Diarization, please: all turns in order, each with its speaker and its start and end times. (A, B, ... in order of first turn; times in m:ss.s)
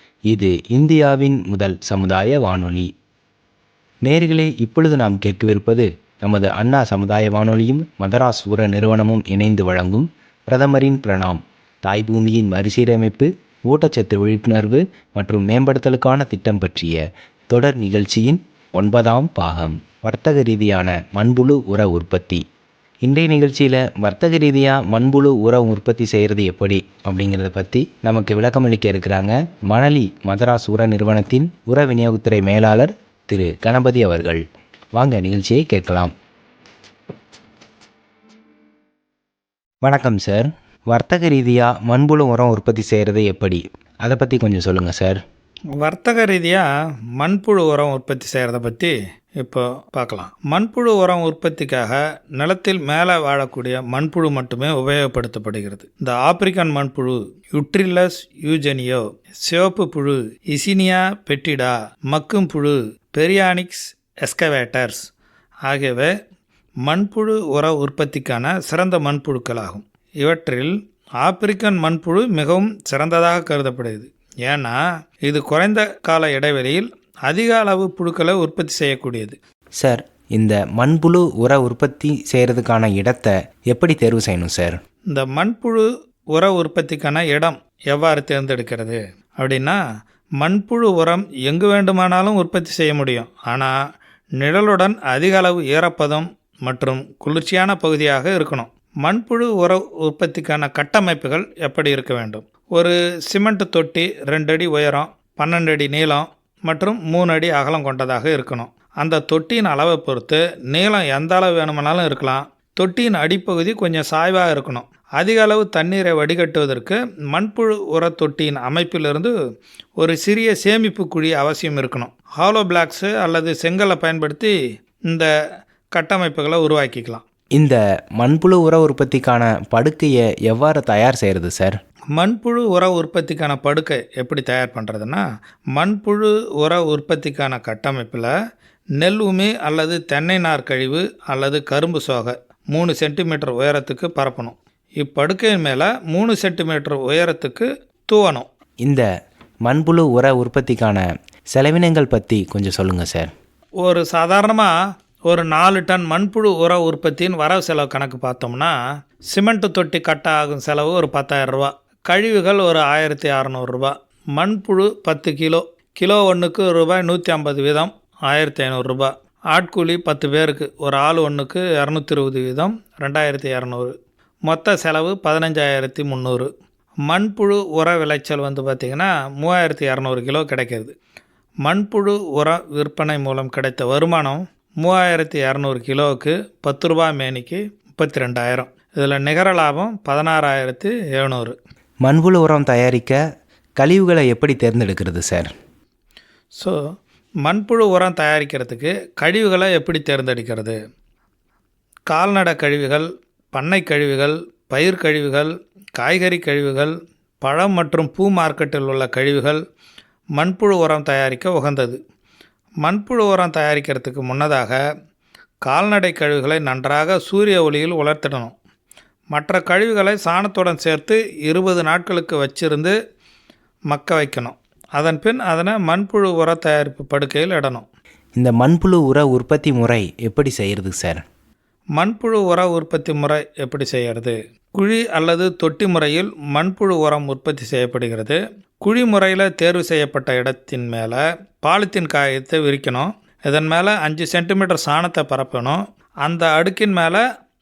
0:00.3-0:02.9 A
0:04.0-0:17.0 A
0:17.5-0:22.4 A
0:23.0-0:34.4 A
0:34.9-0:36.1 A
0:39.8-0:45.2 A
0:45.8-0:46.7 B
0:47.2-1:05.0 B
1:05.7-1:06.1 B
1:06.8-1:19.4 B
1:19.8-1:24.8 A
1:25.1-1:29.8 B
1:30.4-1:33.7 B
1:34.4-1:59.3 B
2:00.0-2:04.5 B
2:05.9-2:07.2 B
2:07.5-2:11.8 A
2:12.1-2:15.2 B
2:15.7-2:18.3 B
2:19.0-2:28.5 B
2:29.6-2:33.3 A
2:33.8-2:34.7 B
2:35.3-2:38.7 B
2:39.3-2:53.9 B
2:54.4-2:56.5 B
2:57.1-3:00.9 B
3:01.6-3:11.6 B
3:12.0-3:13.2 A
3:13.8-3:15.5 A
3:17.4-3:20.8 B
3:22.1-3:29.6 B
3:30.4-3:32.0 B
3:32.8-3:34.8 B
3:35.6-3:38.5 B
3:39.3-3:43.0 B
3:43.9-3:47.8 B
3:48.4-3:51.2 A
3:52.0-4:07.2 B